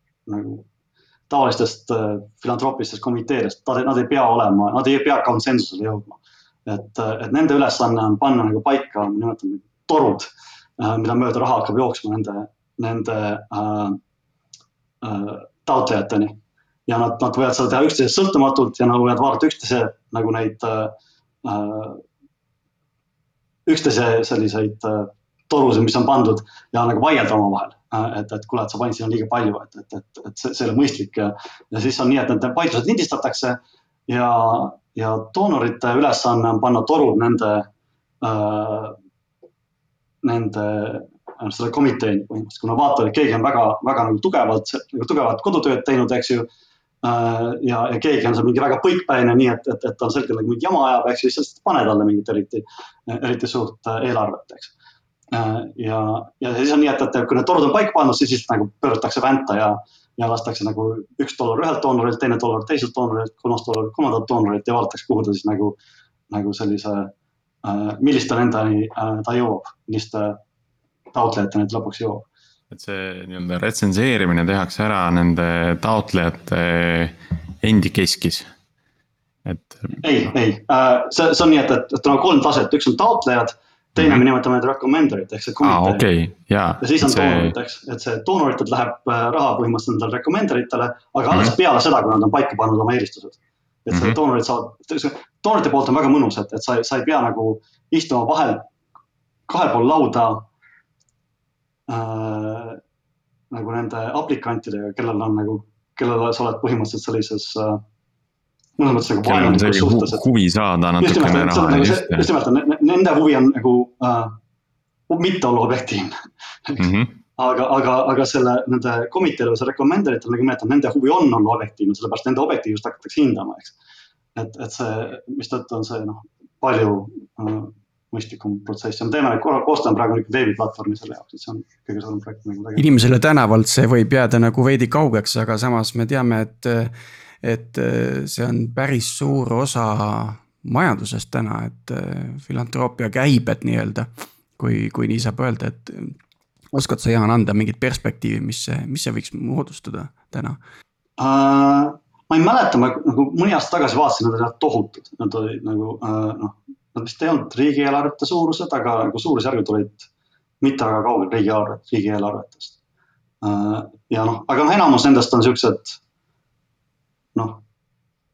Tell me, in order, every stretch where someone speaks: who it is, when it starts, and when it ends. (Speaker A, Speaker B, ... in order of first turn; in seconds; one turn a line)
Speaker A: 0.3-0.6
Speaker A: 1.3-14.0
Speaker A: 15.0-22.0
Speaker A: 23.7-37.7
Speaker A: 38.2-39.0
Speaker A: 40.2-46.5
Speaker A: 47.0-54.7
Speaker A: 55.3-65.8
Speaker A: 66.3-67.1
Speaker A: 67.6-70.4
Speaker A: 71.1-72.3
Speaker B: 72.7-78.5
Speaker B: 79.5-80.0
Speaker A: 80.0-86.0
Speaker B: 84.0-84.2
Speaker B: 85.6-87.5
Speaker A: 86.8-98.7
Speaker B: 93.9-94.2
Speaker A: 99.5-100.5
Speaker A: 101.9-102.8
Speaker A: 103.5-107.8
Speaker A: 108.8-110.2
Speaker B: 109.2-112.3
Speaker A: 111.0-114.3
Speaker A: 115.1-123.8
Speaker B: 116.8-117.1
Speaker A: 124.3-132.9
Speaker C: 132.8-146.2
Speaker C: 146.7-150.6
Speaker A: 151.2-160.1
Speaker A: 160.6-162.8
Speaker A: 163.4-166.0
Speaker A: 167.3-167.6